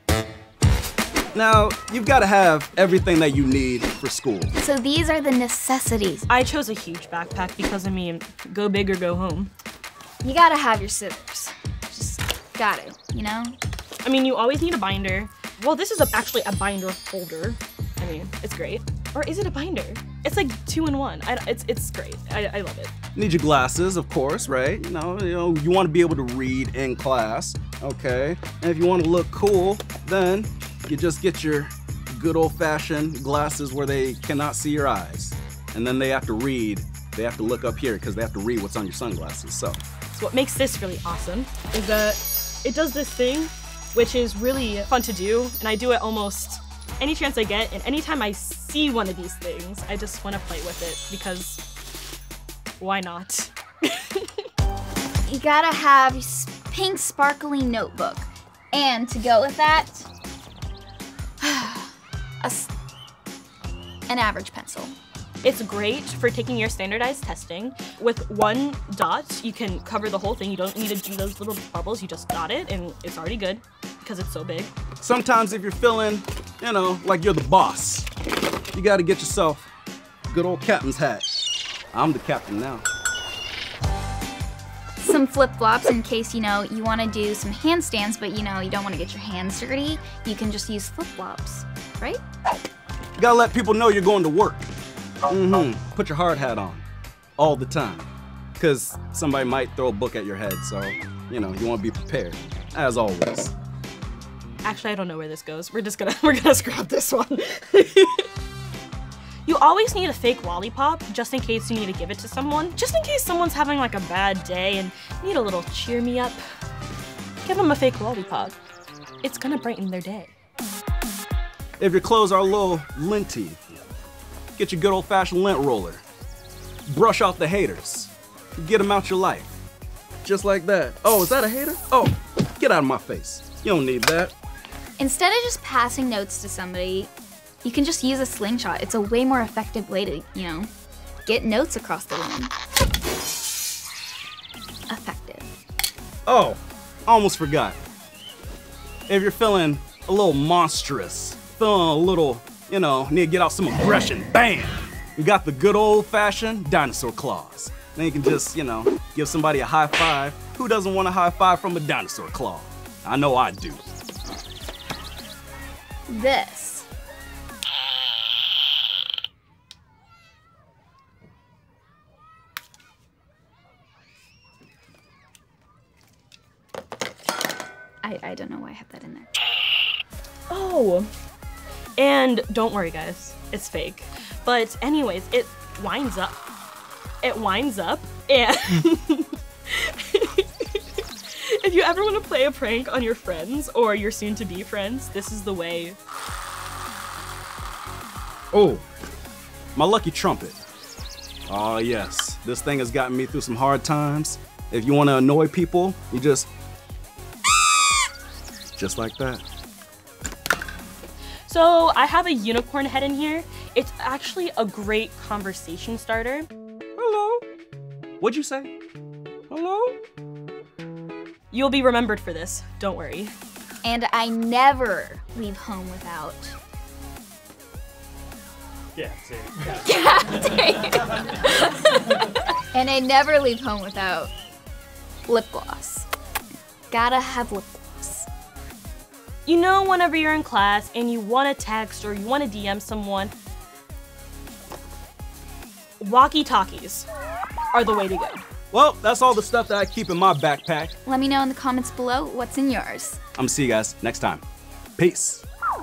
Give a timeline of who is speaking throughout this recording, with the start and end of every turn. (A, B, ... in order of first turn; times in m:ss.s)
0:01.3-0:04.5 A
0:04.6-0:06.3 B
0:06.3-0:09.5 C
0:10.2-0:13.6 B
0:14.0-0:22.9 C
0:23.1-0:39.8 A
0:40.1-0:51.6 C
0:52.8-0:54.5 C
0:55.3-1:00.1 B
1:01.4-1:02.7 B
1:04.1-1:04.9 B
1:05.4-1:14.7 C
1:15.0-1:18.1 A
1:18.7-1:19.7 A
1:20.3-1:21.2 A
1:21.9-1:22.8 A
1:25.0-1:32.2 B
1:33.2-1:34.6 A
1:35.3-1:36.8 A
1:37.4-1:38.1 A
1:38.6-1:43.5 A
1:44.6-1:48.3 C
1:49.4-1:56.4 C
1:57.4-1:58.6 C
1:59.2-2:00.3 C
2:01.8-2:03.6 A
2:04.6-2:06.0 A
2:06.9-2:09.5 A
2:10.2-2:14.3 A
2:15.0-2:17.1 B
2:17.6-2:20.7 B
2:21.2-2:22.5 B
2:24.9-2:25.5 B
2:26.2-2:27.8 A
2:29.1-2:43.8 A
2:46.1-2:46.9 B
2:58.0-2:59.3 B
3:00.5-3:01.1 C
3:02.0-3:06.4 C
3:07.2-3:16.0 C
3:18.5-3:18.8 A
3:19.7-3:20.6 A
3:21.5-3:26.5 A
3:28.8-3:29.4 A
3:31.4-3:36.5 C
3:37.0-3:37.4 A
3:38.2-3:38.7 A
3:39.5-3:40.0 A
3:41.5-3:43.3 C
3:43.8-3:46.6 B
3:49.6-3:54.3 B
3:55.3-3:56.1 B
3:56.9-3:58.3 B
3:59.4-4:03.3 C
4:06.0-4:07.1 C
4:07.7-4:08.4 C
4:08.7-4:11.0 A
4:11.0-4:13.2 B
4:13.4-4:14.4 A
4:15.0-4:15.4 A